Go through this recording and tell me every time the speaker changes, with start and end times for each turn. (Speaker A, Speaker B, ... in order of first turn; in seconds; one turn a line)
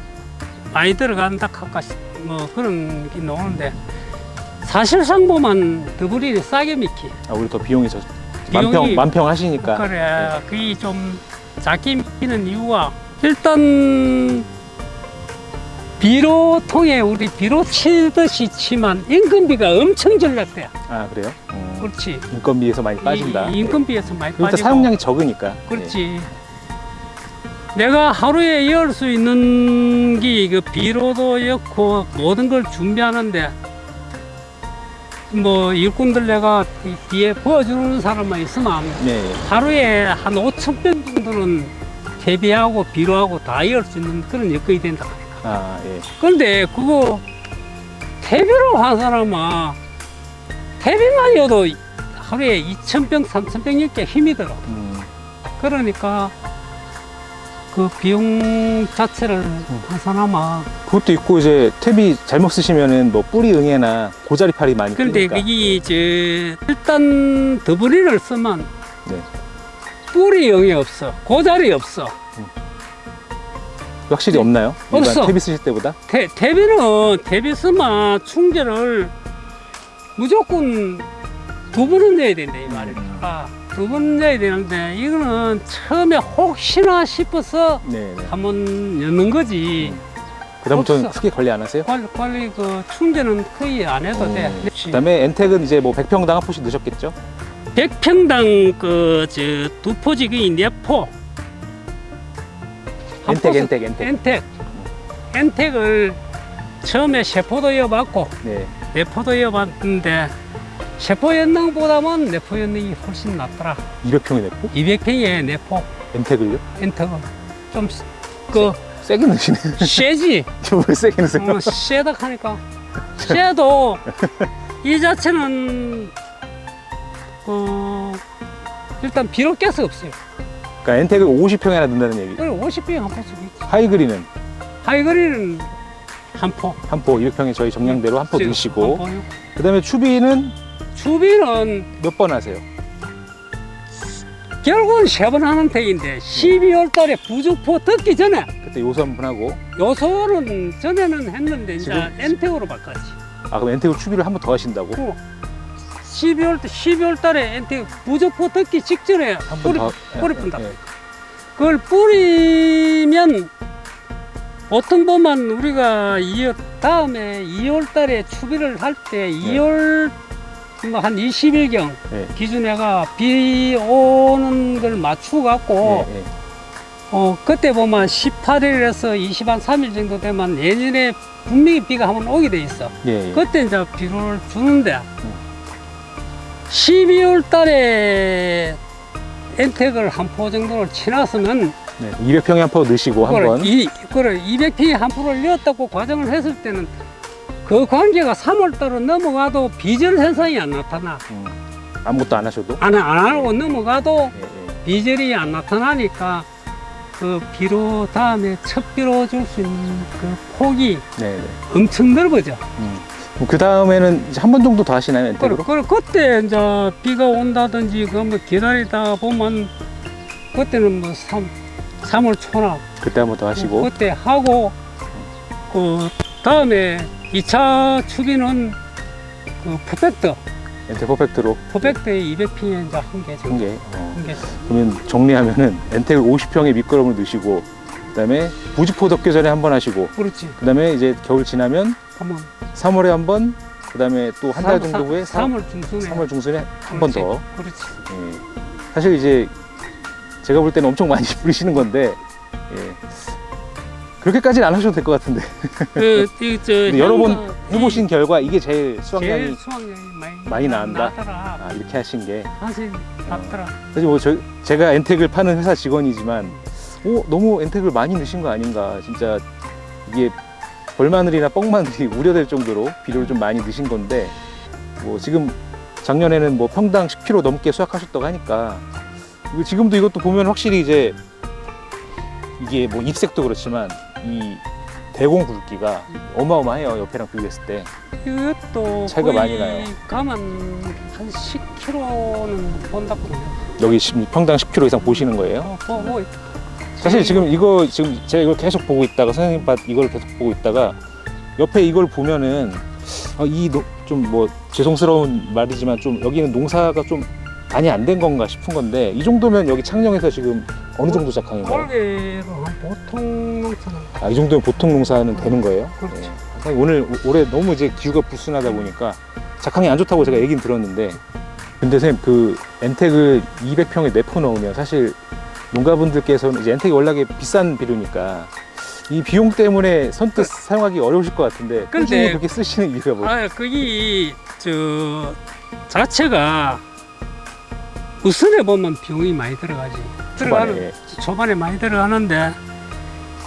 Speaker A: 0.7-3.8
Speaker A: 4.6-7.2
Speaker B: 7.3-10.8
Speaker A: 8.5-9.1
Speaker A: 9.6-14.4
Speaker A: 16.0-20.7
Speaker B: 20.9-23.8
Speaker A: 21.8-22.2
Speaker A: 23.0-24.9
Speaker B: 24.4-26.0
Speaker A: 25.7-26.3
Speaker A: 27.7-33.5
Speaker A: 35.3-45.4
Speaker B: 39.0-39.4
Speaker B: 45.4-46.1
Speaker A: 46.2-47.2
Speaker A: 48.2-49.8
Speaker A: 50.8-54.7
Speaker B: 54.7-55.1
Speaker A: 55.6-56.3
Speaker A: 57.7-60.7
Speaker B: 60.9-65.8
Speaker A: 65.0-68.7
Speaker A: 70.1-72.2
Speaker B: 74.1-76.0
Speaker A: 74.3-75.4
Speaker A: 76.1-79.1
Speaker A: 80.2-81.1
Speaker A: 81.7-90.0
Speaker B: 82.7-83.3
Speaker B: 87.8-88.3
Speaker B: 90.6-91.9
Speaker A: 90.7-91.1
Speaker A: 91.8-95.0
Speaker B: 94.1-97.1
Speaker A: 97.7-101.1
Speaker A: 103.2-104.5
Speaker B: 103.2-104.1
Speaker A: 105.3-106.2
Speaker A: 106.8-110.3
Speaker B: 108.4-108.7
Speaker A: 111.0-113.8
Speaker B: 114.0-114.7
Speaker A: 114.7-115.9
Speaker B: 116.1-116.6
Speaker A: 116.7-118.7
Speaker B: 118.5-121.8
Speaker A: 119.8-120.5
Speaker A: 121.3-122.6
Speaker A: 123.2-124.1
Speaker B: 124.2-124.5
Speaker A: 124.8-126.1
Speaker A: 127.4-128.2
Speaker A: 129.0-130.2
Speaker B: 130.8-132.4
Speaker A: 132.4-133.7
Speaker B: 133.7-134.3
Speaker A: 134.8-135.7
Speaker A: 136.3-136.8
Speaker B: 136.9-139.0
Speaker A: 137.8-139.3
Speaker B: 139.6-140.5
Speaker A: 140.9-141.9
Speaker B: 141.9-142.6
Speaker A: 143.9-148.5
Speaker B: 148.6-149.6
Speaker A: 149.7-153.2
Speaker B: 151.8-152.4
Speaker B: 153.5-155.0
Speaker A: 156.0-160.8
Speaker B: 159.5-160.8
Speaker A: 161.6-163.5
Speaker A: 164.7-170.1
Speaker A: 170.8-176.1
Speaker B: 175.8-176.3
Speaker A: 177.1-185.1
Speaker B: 183.0-183.4
Speaker A: 186.7-188.8
Speaker A: 189.5-191.8
Speaker B: 192.0-193.7
Speaker A: 193.2-196.9
Speaker A: 197.6-201.2
Speaker B: 201.3-203.6
Speaker A: 202.8-206.5
Speaker B: 204.3-204.8
Speaker A: 207.1-211.1
Speaker B: 211.2-211.6
Speaker A: 211.7-212.6
Speaker B: 212.8-215.7
Speaker A: 215.4-219.7
Speaker A: 220.5-222.8
Speaker B: 223.0-223.9
Speaker A: 223.5-224.7
Speaker A: 225.7-228.8
Speaker A: 229.6-230.4
Speaker B: 230.9-232.0
Speaker A: 231.7-234.5
Speaker B: 233.5-242.0
Speaker A: 240.2-240.6
Speaker A: 242.2-242.5
Speaker B: 242.7-247.4
Speaker A: 244.5-246.3
Speaker A: 246.9-247.9
Speaker B: 248.1-249.5
Speaker B: 250.4-253.3
Speaker B: 254.2-256.3
Speaker A: 255.9-258.1
Speaker B: 256.8-259.6
Speaker A: 259.1-261.6
Speaker B: 260.4-262.5
Speaker A: 262.5-263.8
Speaker B: 263.3-269.4
Speaker B: 270.0-270.3
Speaker B: 270.9-274.3
Speaker B: 275.0-278.9
Speaker B: 279.5-281.2
Speaker B: 282.6-287.9
Speaker A: 288.2-293.6
Speaker B: 289.1-289.9
Speaker B: 293.8-296.2
Speaker A: 295.0-296.4
Speaker A: 297.0-297.5
Speaker B: 297.0-301.0
Speaker B: 301.6-311.9
Speaker A: 311.1-314.1
Speaker B: 314.2-321.2
Speaker A: 315.3-316.3
Speaker B: 321.8-325.2
Speaker B: 325.7-333.3
Speaker A: 331.9-332.4
Speaker A: 333.2-335.4
Speaker A: 335.9-336.8
Speaker A: 338.2-342.6
Speaker B: 340.4-340.9